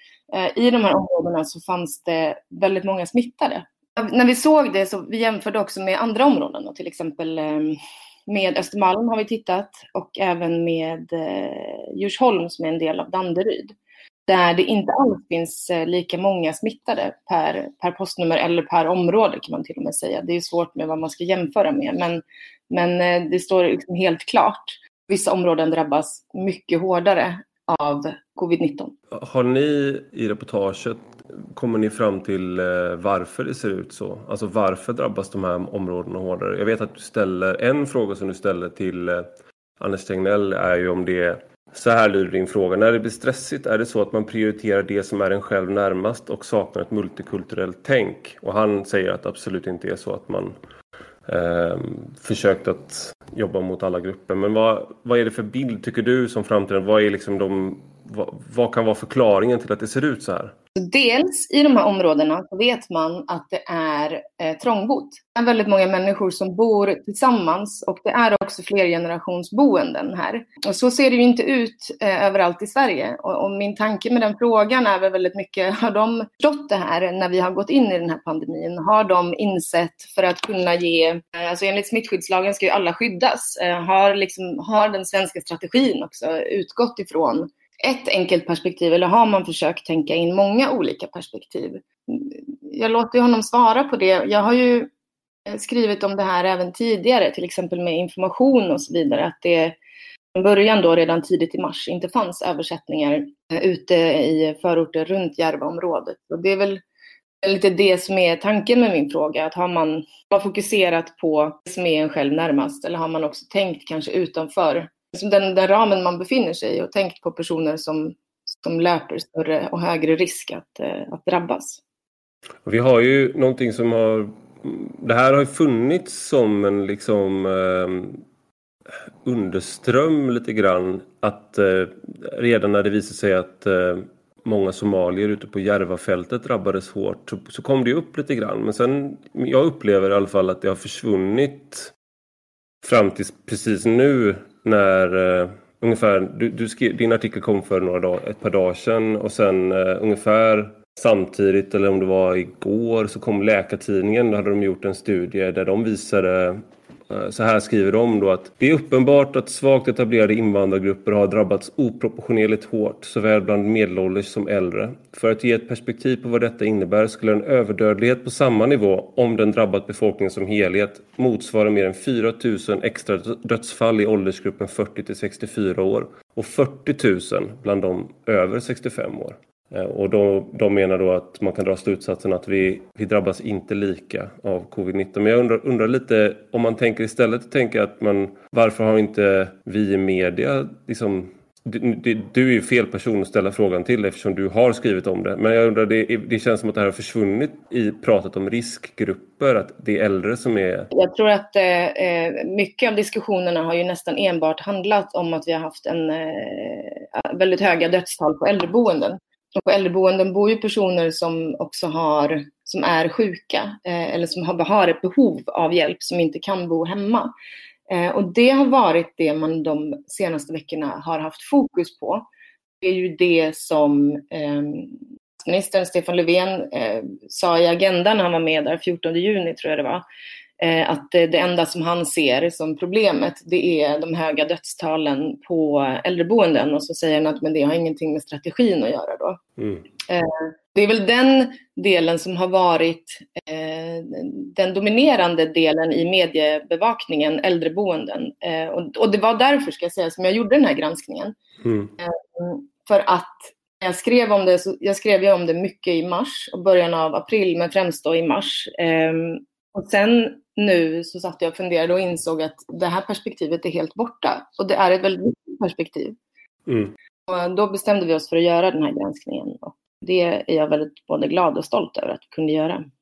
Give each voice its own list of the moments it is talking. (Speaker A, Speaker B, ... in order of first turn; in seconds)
Speaker A: 0.3-13.8, 14.3-28.9, 60.8-94.9, 95.5-99.8, 100.3-106.8, 107.4-121.8, 200.9-217.3, 217.9-222.2, 222.8-230.0, 230.6-239.4, 240.0-251.3, 252.0-266.2, 267.3-272.8
Speaker B: 29.1-39.3, 39.8-50.5, 51.3-60.5, 122.7-128.2, 129.2-141.9, 142.8-200.9, 239.6-239.8, 251.6-251.9, 266.7-266.9